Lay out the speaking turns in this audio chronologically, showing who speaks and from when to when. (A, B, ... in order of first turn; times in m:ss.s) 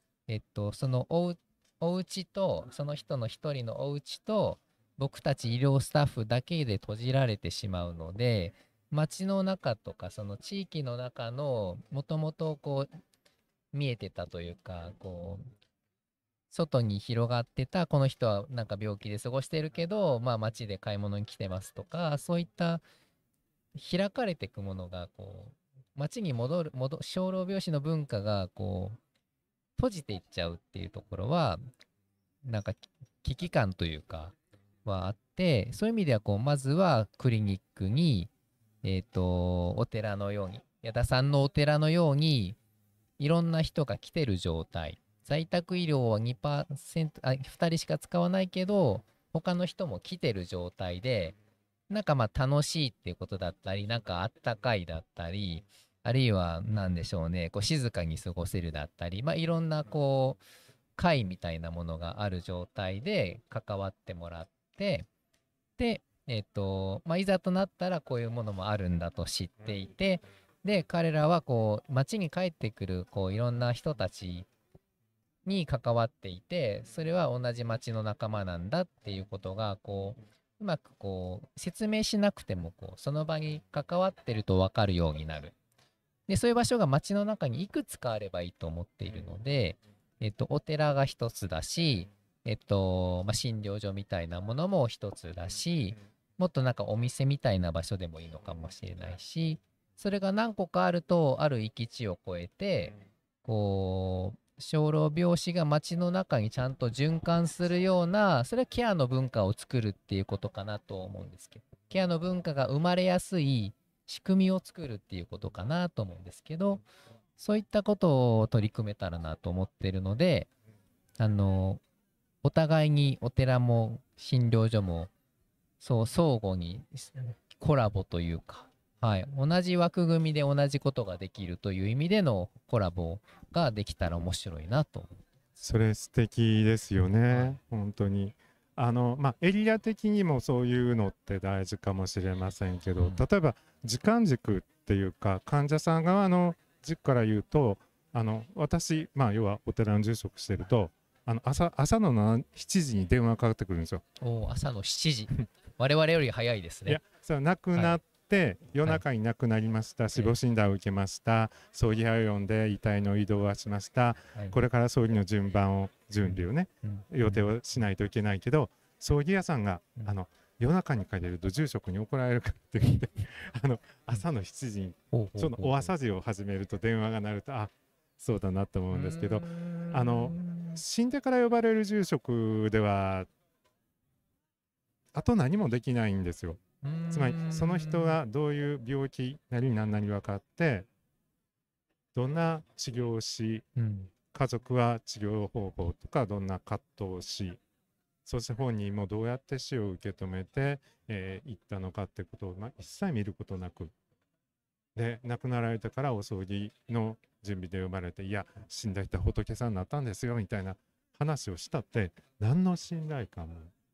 0:00.3-0:12.9 A
0:13.7-0:15.5 A
0:16.5-0:22.8 A
0:23.7-0:29.0 A
0:29.8-0:31.6 A
0:32.4-0:38.3 A
0:38.8-0:42.6 A
0:43.2-0:51.4 A
0:51.9-1:00.4 A
1:01.0-1:05.1 A
1:05.8-1:14.5 A
1:15.4-1:25.5 A
1:26.3-1:56.8 A
1:57.4-2:00.5 A
2:01.2-2:01.8 A
2:02.4-2:05.1 A
2:05.8-2:15.2 A
2:15.6-2:34.0 B
2:17.3-2:17.6 A
2:23.0-2:23.2 A
2:34.2-2:37.0 A
2:36.8-3:03.3 B
2:37.7-2:38.0 A
2:46.2-2:47.0 A
2:55.1-2:55.9 A
2:58.9-3:00.8 A
3:05.1-3:10.9 B
3:06.8-3:08.2 A
3:12.1-3:13.6 B
3:13.8-3:14.1 A
3:14.3-3:17.6 B
3:18.2-3:23.9 B
3:24.9-3:33.7 B